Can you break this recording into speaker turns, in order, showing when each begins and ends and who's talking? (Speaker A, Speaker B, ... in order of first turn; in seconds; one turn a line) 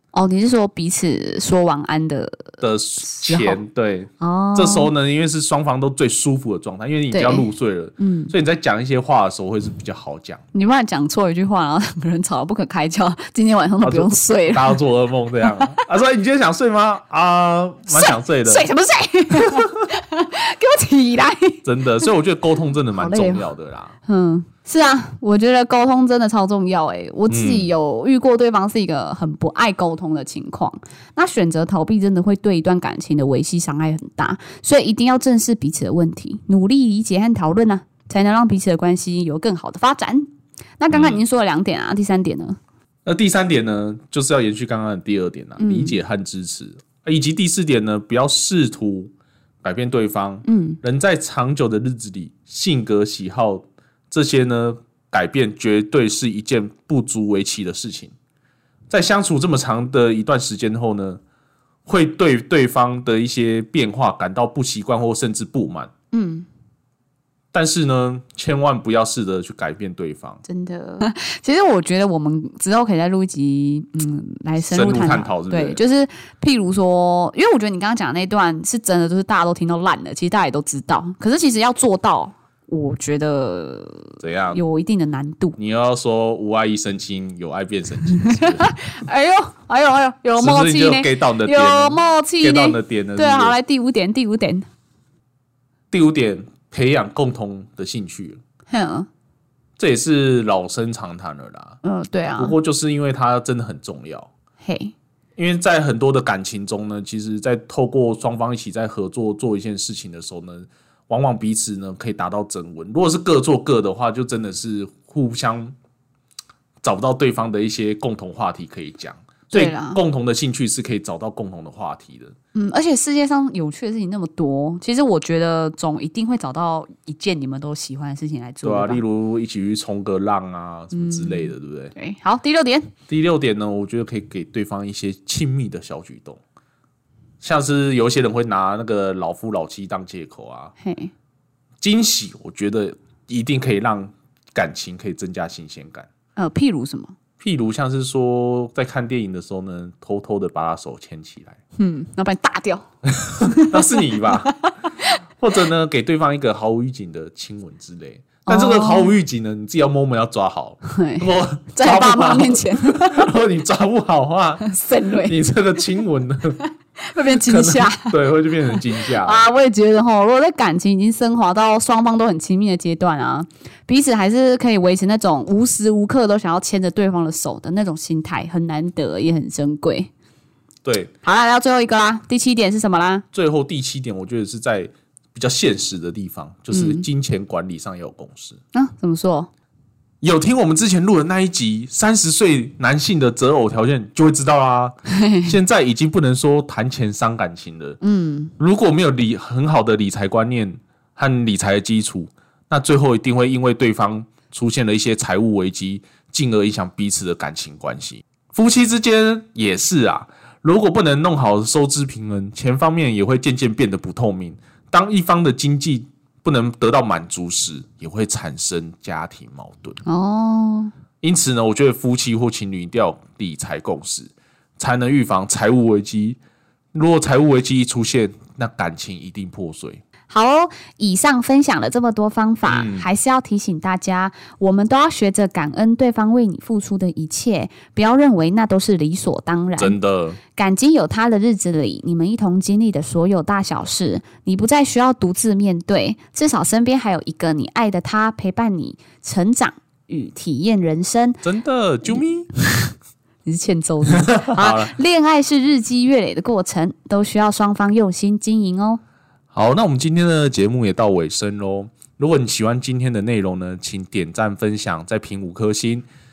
Speaker A: 0.1-3.6
Speaker B: 2.6-10.4
Speaker A: 4.2-4.9
Speaker A: 7.1-7.5
Speaker A: 8.0-8.3
Speaker A: 10.5-14.8
Speaker B: 13.8-18.7
Speaker A: 15.4-15.8
Speaker A: 17.9-21.6
Speaker B: 21.6-23.9
Speaker A: 22.9-23.5
Speaker A: 24.1-40.3
Speaker B: 27.3-27.7
Speaker A: 40.8-42.6
Speaker B: 40.9-41.2
Speaker B: 43.0-49.1
Speaker A: 45.6-46.0
Speaker B: 49.6-58.1
Speaker A: 50.4-50.8
Speaker B: 58.9-61.2
Speaker B: 61.9-65.9
Speaker A: 66.1-66.5
Speaker B: 67.5-70.4
Speaker A: 70.5-85.6
Speaker B: 74.6-75.8
Speaker B: 84.2-84.6
Speaker B: 85.6-88.7
Speaker A: 88.2-94.6
Speaker B: 90.4-93.5
Speaker B: 95.9-98.4
Speaker A: 98.7-99.1
Speaker B: 99.8-101.8
Speaker A: 101.8-102.5
Speaker B: 102.3-104.3
Speaker A: 104.6-104.9
Speaker B: 105.3-115.7
Speaker B: 116.8-122.3
Speaker A: 119.5-120.0
Speaker A: 122.5-129.0
Speaker B: 128.6-131.9
Speaker A: 130.9-132.9
Speaker B: 133.1-136.4
Speaker B: 137.4-140.7
Speaker A: 140.8-141.1
Speaker B: 141.8-146.1
Speaker A: 146.4-147.1
Speaker B: 147.4-151.6
Speaker A: 151.8-152.8
Speaker B: 153.1-154.6
Speaker A: 153.4-153.8
Speaker A: 154.5-155.1
Speaker B: 155.4-166.6
Speaker A: 158.4-159.1
Speaker A: 160.8-163.2
Speaker A: 164.6-165.3
Speaker A: 167.1-168.2
Speaker B: 167.4-169.5
Speaker A: 168.7-180.1
Speaker B: 180.8-181.1
Speaker A: 181.2-183.2
Speaker B: 183.3-188.6
Speaker A: 186.7-187.1
Speaker A: 188.7-189.5
Speaker B: 190.2-198.0
Speaker A: 198.0-198.5
Speaker B: 198.6-220.0
Speaker A: 220.0-220.9
Speaker B: 221.2-226.4
Speaker B: 226.9-230.0
Speaker A: 230.3-240.0
Speaker B: 232.7-233.1
Speaker B: 239.8-240.4
Speaker A: 240.6-251.4
Speaker B: 251.4-252.5
Speaker A: 253.4-259.0
Speaker B: 254.2-254.9
Speaker B: 259.5-266.0